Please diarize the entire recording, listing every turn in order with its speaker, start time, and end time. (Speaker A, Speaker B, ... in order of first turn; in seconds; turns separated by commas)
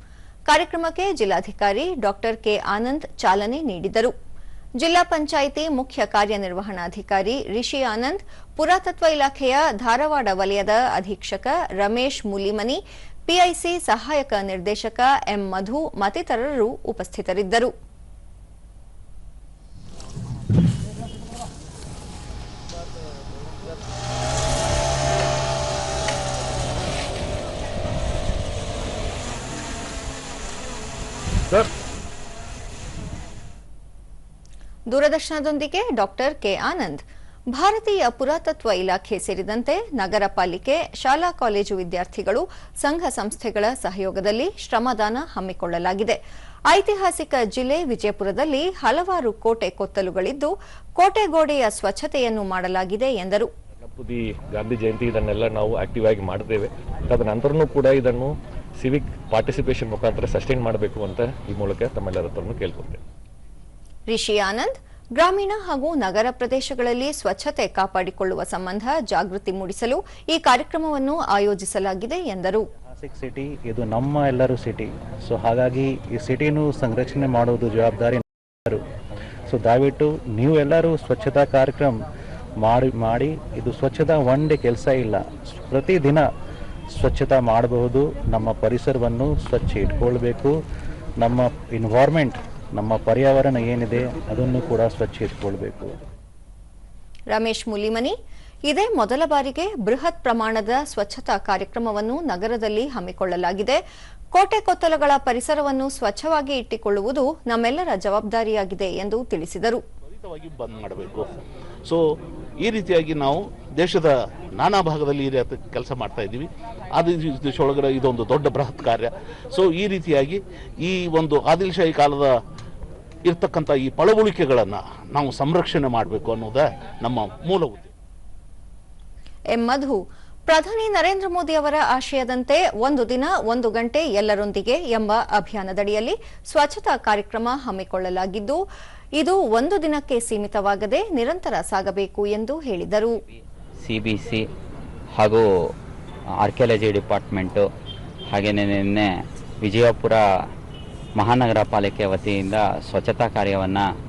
Speaker A: 0.5-4.1, Speaker A: 4.8-17.7, Speaker A: 34.9-53.5, Speaker B: 53.9-63.0, Speaker A: 64.1-72.7, Speaker C: 73.0-78.8, Speaker C: 79.5-82.0, Speaker C: 82.6-86.2, Speaker C: 87.0-90.5, Speaker C: 91.2-95.9, Speaker A: 97.3-98.1, Speaker A: 98.7-103.8, Speaker A: 104.3-109.8, Speaker D: 110.1-112.0, Speaker D: 112.6-122.4, Speaker D: 123.2-127.9, Speaker A: 129.5-138.6, Speaker A: 139.2-143.2, Speaker E: 143.8-144.4, Speaker E: 145.2-145.4, Speaker E: 146.4-147.6, Speaker E: 148.3-149.1, Speaker E: 149.6-150.2, Speaker E: 151.2-153.8